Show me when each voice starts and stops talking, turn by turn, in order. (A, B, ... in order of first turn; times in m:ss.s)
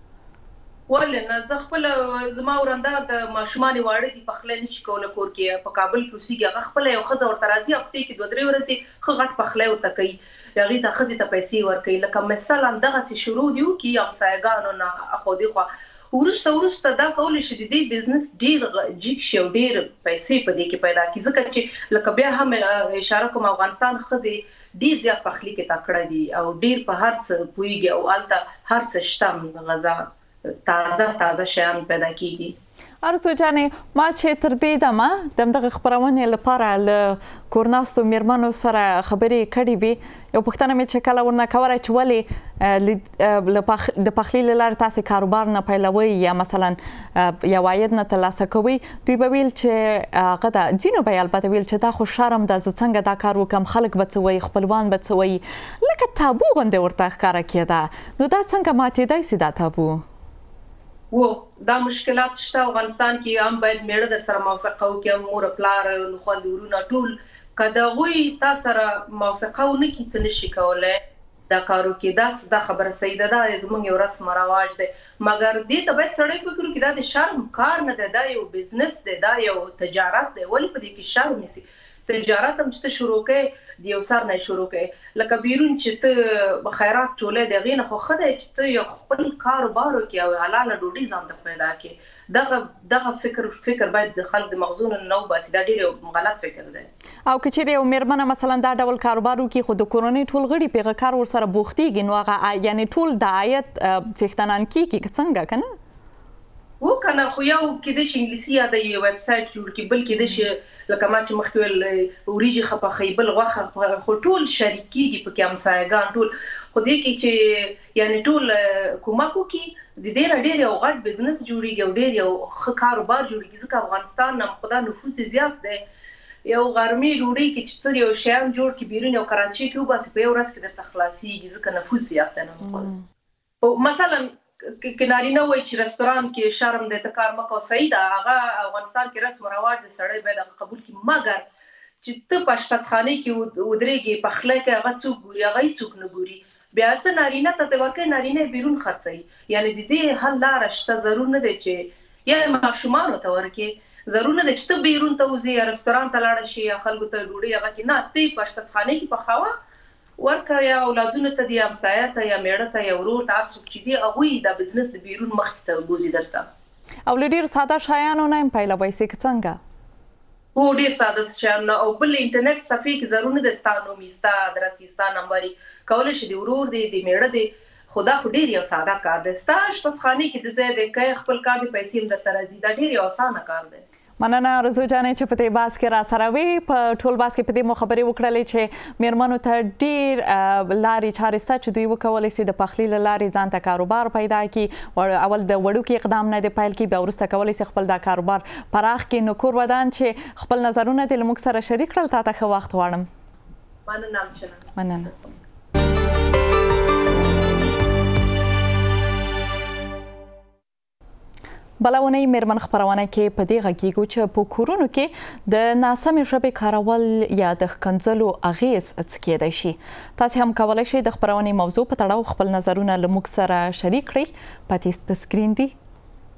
0:00.9-0:30.0 A
0:30.6-0:32.5 A
0:33.0-1:00.0 B
1:01.1-1:11.0 A
1:11.5-1:36.9 A
1:37.3-1:45.7 B
1:46.8-2:05.8 A
2:06.4-2:12.9 A
2:13.6-2:21.4 A
2:22.0-2:39.5 A
2:40.2-2:46.4 A
2:47.1-2:49.6 B
2:50.5-3:03.8 A
3:04.2-3:23.1 B
3:23.9-3:25.3 A
3:24.8-3:25.1 B
3:31.8-3:45.7 B